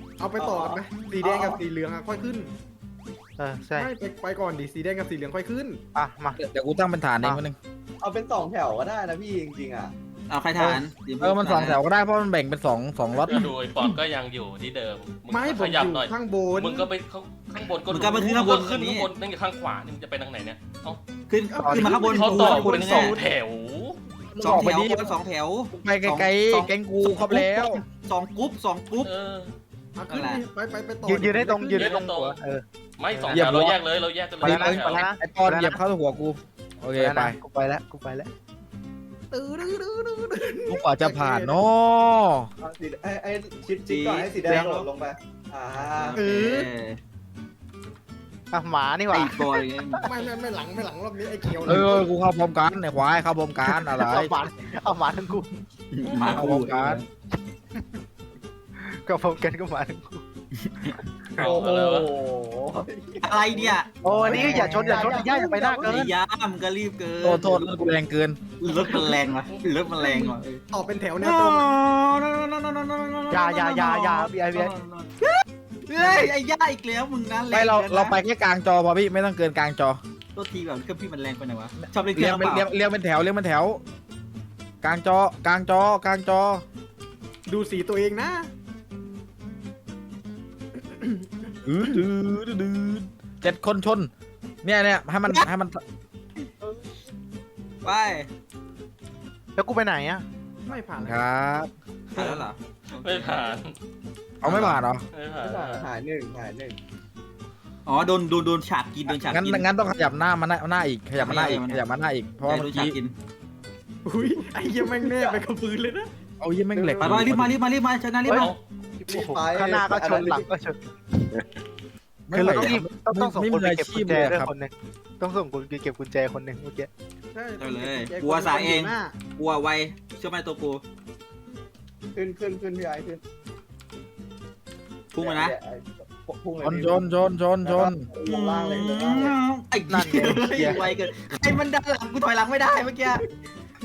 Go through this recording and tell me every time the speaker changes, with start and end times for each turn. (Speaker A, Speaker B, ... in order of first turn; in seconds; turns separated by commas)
Speaker A: 0.2-2.5, Speaker B: 0.4-1.6, Speaker C: 3.4-3.9, Speaker A: 3.8-5.8, Speaker C: 5.9-6.4, Speaker D: 6.3-7.6, Speaker B: 8.0-9.9, Speaker E: 10.3-11.8, Speaker D: 11.2-13.4, Speaker F: 13.3-21.0, Speaker A: 15.3-16.9, Speaker E: 17.9-19.1, Speaker E: 21.3-23.2, Speaker A: 21.5-23.2, Speaker F: 21.8-24.0, Speaker D: 24.4-25.1, Speaker E: 24.4-29.1, Speaker D: 25.7-27.8, Speaker F: 29.0-29.5, Speaker A: 29.9-32.0, Speaker E: 30.1-30.4, Speaker C: 31.0-33.5, Speaker F: 31.7-32.4, Speaker F: 33.0-35.0, Speaker D: 33.3-33.8, Speaker C: 34.4-35.8, Speaker D: 34.4-37.3, Speaker C: 37.0-38.3, Speaker A: 39.3-41.6, Speaker D: 40.7-42.5, Speaker B: 42.6-46.2, Speaker E: 43.8-44.3, Speaker C: 44.5-44.9, Speaker E: 45.8-47.0, Speaker A: 46.2-46.7, Speaker C: 48.5-50.1, Speaker E: 49.1-50.1, Speaker A: 50.0-52.0, Speaker D: 51.6-54.3, Speaker C: 53.6-55.5, Speaker E: 55.9-57.0, Speaker F: 56.0-56.4, Speaker D: 56.3-57.0, Speaker C: 58.8-60.2, Speaker E: 60.6-60.9, Speaker F: 61.4-62.1, Speaker B: 61.4-63.8, Speaker E: 63.2-67.9, Speaker C: 64.0-66.1, Speaker A: 64.3-65.8, Speaker B: 64.4-65.2, Speaker D: 67.2-68.4, Speaker E: 68.6-70.6, Speaker A: 70.1-71.7, Speaker E: 71.2-78.2, Speaker C: 73.3-74.7, Speaker D: 76.0-76.3, Speaker D: 77.5-80.0, Speaker E: 80.3-82.7, Speaker D: 81.8-83.8, Speaker D: 84.8-86.6, Speaker A: 87.5-88.5, Speaker A: 90.7-91.6, Speaker D: 91.7-94.1, Speaker D: 94.6-95.8, Speaker E: 97.8-98.3, Speaker C: 99.5-100.2, Speaker A: 100.6-101.4, Speaker D: 101.0-101.7, Speaker E: 102.1-103.6, Speaker F: 103.0-103.7, Speaker D: 104.4-105.0, Speaker E: 104.4-104.8, Speaker F: 105.1-105.9, Speaker B: 105.4-106.8, Speaker E: 107.8-109.7, Speaker D: 109.3-113.0, Speaker E: 111.2-111.8, Speaker E: 112.4-113.1, Speaker A: 114.0-116.1, Speaker B: 115.0-115.4, Speaker D: 116.4-117.5, Speaker B: 116.8-117.1, Speaker E: 117.0-118.5, Speaker C: 118.2-121.5, Speaker F: 118.3-118.6, Speaker B: 119.1-120.5, Speaker D: 122.3-124.5, Speaker C: 122.3-126.9, Speaker A: 127.3-129.1, Speaker E: 127.6-130.8, Speaker B: 132.1-133.2, Speaker E: 135.1-135.5, Speaker B: 135.2-137.1, Speaker D: 136.6-138.1, Speaker B: 137.6-139.3, Speaker E: 138.2-143.2, Speaker C: 139.9-140.8